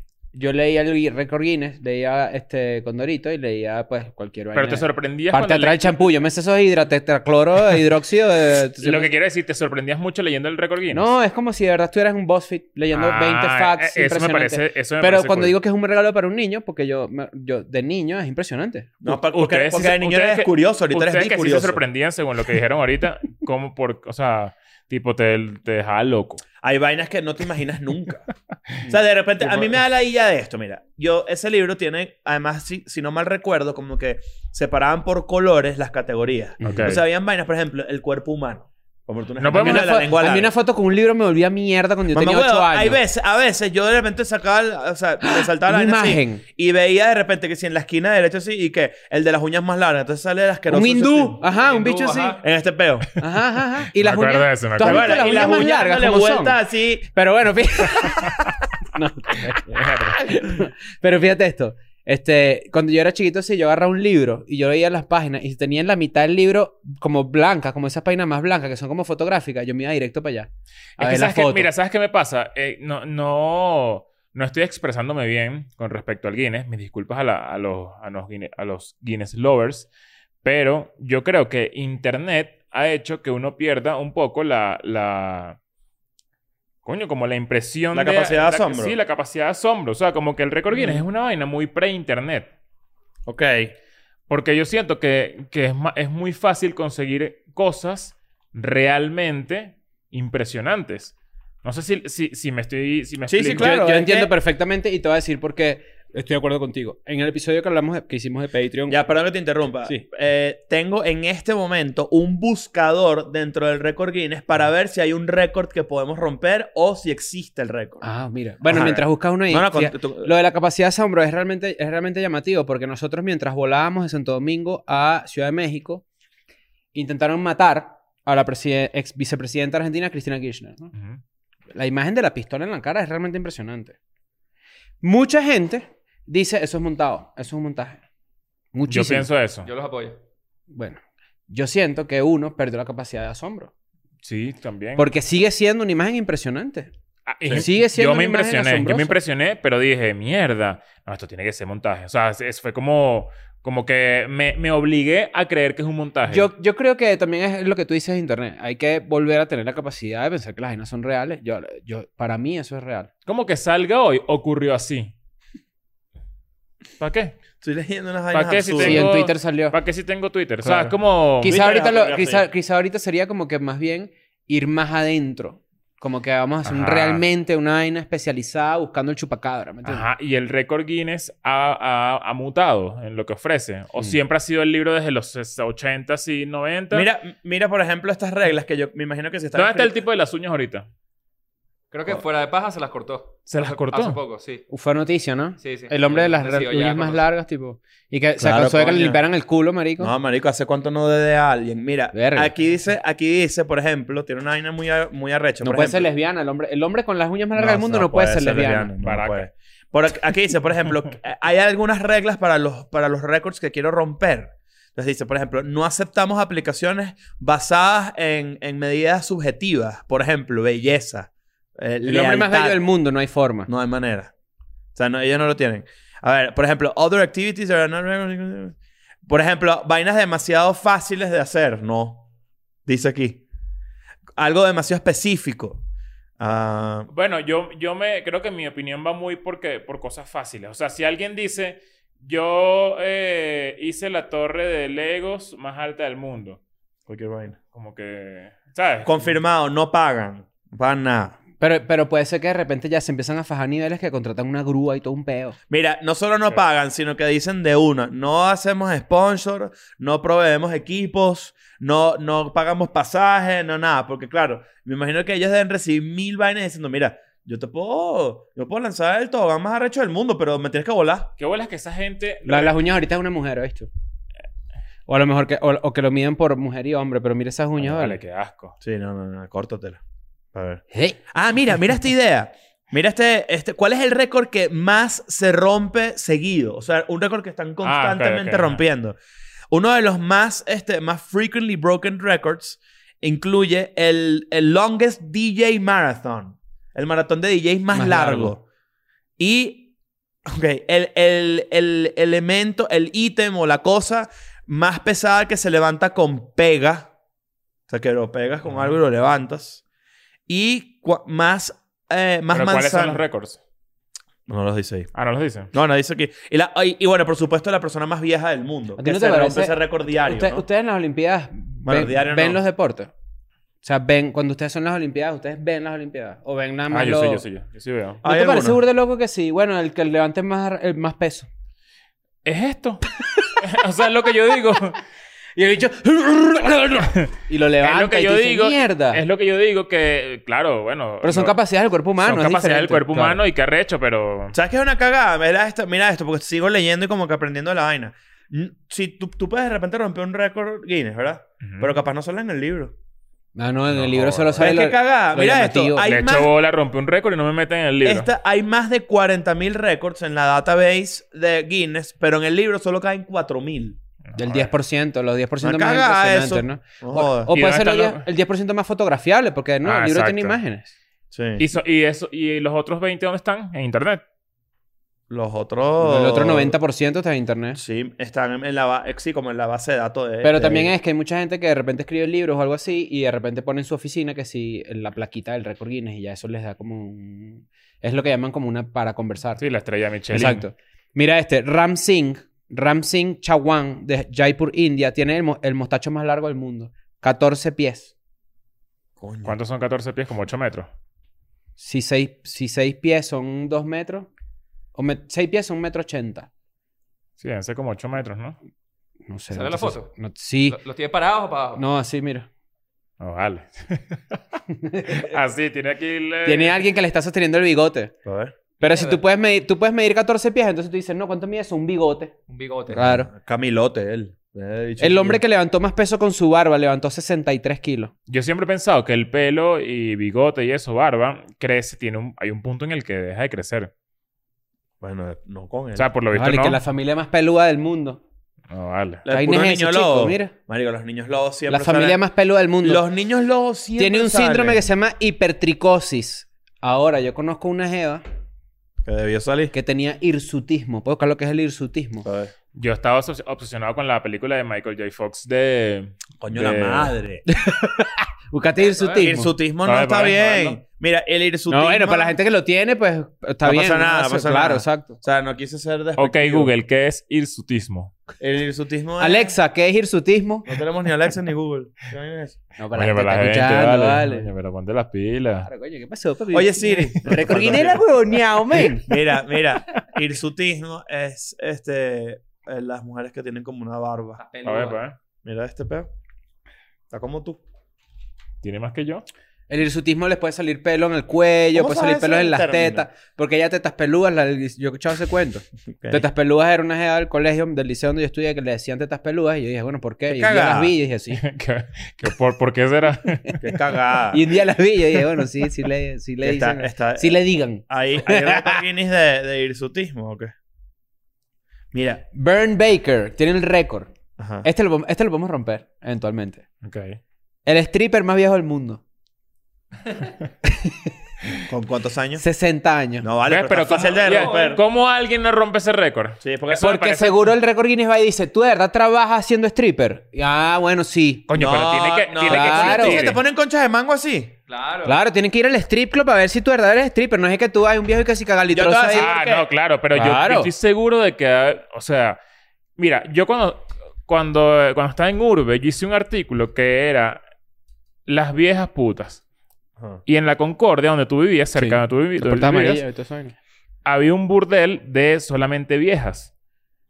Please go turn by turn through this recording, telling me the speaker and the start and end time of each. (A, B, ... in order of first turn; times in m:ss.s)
0:00.3-0:09.1 A
0:04.5-0:06.1 B
0:08.8-0:11.1 B
0:10.9-0:18.9 A
0:12.9-0:15.6 B
0:19.0-0:21.8 C
0:19.0-0:26.4 B
0:26.6-0:28.2 C
0:28.9-0:40.5 C
0:36.6-0:37.0 A
0:36.6-0:37.0 B
0:39.4-0:40.1 B
0:39.5-0:43.0 A
0:42.1-0:51.4 C
0:45.2-0:46.4 A
0:50.7-0:52.4 A
0:51.4-0:52.4 D
0:52.4-0:53.1 C
0:53.2-0:56.6 A
0:53.9-0:55.5 B
0:54.8-0:57.1 C
0:57.1-1:11.7 A
0:59.6-1:00.2 B
1:11.0-1:19.9 B
1:20.4-1:25.6 B
1:26.8-1:32.5 B
1:27.9-1:29.0 C
1:33.3-1:33.7 C
1:34.3-1:43.8 B
1:43.3-1:44.3 C
1:43.5-1:49.0 A
1:48.9-1:58.0 C
1:58.0-2:06.0 A
1:58.7-2:00.3 C
2:06.9-2:10.9 A
2:10.9-2:11.2 B
2:11.8-2:14.0 A
2:15.0-2:18.0 A
2:18.7-2:19.3 A
2:18.9-2:19.7 B
2:19.6-2:20.2 D
2:20.7-2:23.7 A
2:24.2-2:25.1 B
2:25.0-2:26.9 A
2:27.3-2:36.5 B
2:27.5-2:29.2 A
2:36.3-2:43.1 A
2:43.3-2:45.1 B
2:47.0-2:47.4 B
2:47.6-2:49.1 C
2:48.3-2:51.6 B
2:48.8-2:49.8 A
2:51.4-3:00.0 A
2:51.4-2:52.5 C
2:56.6-2:57.2 B
2:59.8-3:07.1 B
3:06.9-3:10.0 C
3:09.6-3:10.9 B
3:11.9-3:14.6 D
3:13.5-3:14.2 B
3:14.7-3:20.1 A
3:15.6-3:17.2 D
3:18.4-3:19.2 C
3:20.0-3:26.1 C
3:22.1-3:22.5 A
3:25.6-3:28.9 A
3:27.6-3:42.8 C
3:29.0-3:29.5 B
3:42.0-3:43.7 A
3:43.7-3:44.3 C
3:45.0-3:48.8 C
3:49.3-3:52.3 C
3:52.9-3:53.4 C
3:54.4-3:55.8 C
3:56.4-3:57.1 C
3:57.1-4:06.6 B
4:07.1-4:07.6 C
4:07.7-4:09.3 B
4:09.0-4:11.4 C
4:11.6-4:15.6 A
4:15.7-4:31.3 C
4:31.4-4:32.8 B
4:32.5-4:33.9 A
4:35.1-4:38.2 A
4:37.8-4:38.8 B
4:38.8-4:40.0 C
4:40.5-4:49.2 C
4:40.9-4:41.2 A
4:47.8-4:48.8 B
4:49.7-4:58.6 C
4:57.9-4:58.5 A
4:59.4-4:59.9 C
5:00.5-5:07.1 C
5:07.9-5:09.8 C
5:10.5-5:13.2 C
5:12.5-5:13.6 B
5:14.5-5:15.1 C
5:15.1-5:15.7 B
5:15.7-5:20.7 C
5:19.0-5:23.1 A
5:21.8-5:22.6 C
5:23.8-5:27.4 A
5:26.9-5:28.2 B
5:28.2-5:28.8 C
5:28.2-5:31.5 A
5:32.4-5:35.0 B
5:35.6-5:39.2 A
5:37.8-5:41.6 B
5:41.2-5:43.4 A
5:42.2-5:44.6 B
5:44.5-5:52.9 C
5:51.6-5:51.9 B
5:53.6-5:56.1 A
5:53.9-5:54.7 B
5:54.6-5:56.5 C
5:56.0-5:58.3 B
5:58.0-6:04.0 C
6:04.3-6:04.7 B
6:04.4-6:10.9 A
6:05.6-6:07.5 C
6:07.5-6:08.2 B
6:09.8-6:10.6 B
6:11.3-6:11.6 C
6:11.6-6:14.2 B
6:15.3-6:16.8 C
6:16.0-6:17.8 A
6:17.8-6:20.9 C
6:20.4-6:29.6 A
6:29.6-6:30.7 B
6:30.3-6:38.1 A
6:39.2-6:39.6 C
6:39.4-6:40.9 B
6:41.8-6:44.3 A
6:45.0-6:46.5 A
6:47.4-6:48.6 B
6:49.3-6:50.8 A
6:49.5-6:50.1 D
6:50.7-6:51.8 D
6:51.8-6:52.5 A
6:53.2-6:54.4 B
6:54.7-6:55.3 A
6:55.1-6:56.8 B
6:56.4-6:58.1 A
6:58.2-6:58.6 C
6:58.8-7:02.3 A
6:58.8-6:59.2 D
7:02.5-7:03.1 D
7:02.9-7:05.4 C
7:02.9-7:03.3 A
7:05.0-7:08.1 A
7:08.3-7:13.9 B
7:15.0-7:16.1 C
7:16.0-7:16.8 B
7:16.3-7:18.2 A
7:18.7-7:19.2 B
7:19.2-7:22.2 C
7:19.3-7:20.5 A
7:21.7-7:23.0 A
7:22.8-7:24.9 C
7:24.0-7:28.2 A
7:29.0-7:29.7 C
7:29.7-7:32.3 A
7:32.2-7:32.5 C
7:32.7-7:37.1 B
7:36.4-7:37.5 C
7:37.5-7:39.5 A
7:39.1-7:42.4 C
7:39.8-7:40.8 B
7:41.7-7:45.2 A
7:43.6-7:46.7 C
7:46.2-7:48.1 B
7:48.4-7:49.6 C
7:49.2-7:50.7 A
7:50.7-7:52.6 C
7:52.8-7:54.5 A
7:52.9-7:55.7 B
7:55.6-7:59.1 A
7:56.5-7:58.1 C
7:59.0-8:04.4 C
8:04.4-8:05.0 D
8:04.6-8:05.2 B
8:05.4-8:06.1 C
8:07.1-8:07.6 C
8:08.6-8:09.2 B
8:09.7-8:21.4 A
8:11.7-8:13.1 C
8:16.0-8:16.3 C
8:20.3-8:21.0 C
8:21.3-8:23.6 B
8:23.6-8:24.4 C
8:24.3-8:28.8 A
8:26.4-8:30.5 C
8:31.9-8:32.2 C
8:32.3-8:34.1 A
8:34.4-8:34.7 C
8:34.6-8:36.6 A
8:36.8-8:37.2 B
8:37.7-8:39.0 A
8:41.7-8:42.4 C
8:42.4-8:43.3 A
8:43.2-8:44.8 C
8:43.5-8:47.5 B
8:44.0-8:44.8 D
8:46.4-8:47.0 C
8:46.8-8:51.5 A
8:51.5-8:53.4 B
8:51.5-8:54.5 C
8:52.4-8:53.3 A
8:54.7-8:55.2 D
8:55.0-8:59.3 A
8:58.7-8:59.7 C
8:59.1-9:02.4 B
9:00.1-9:00.7 A
9:03.0-9:07.4 B
9:08.3-9:09.4 B
9:10.3-9:13.0 B
9:11.8-9:13.6 A
9:14.0-9:16.5 B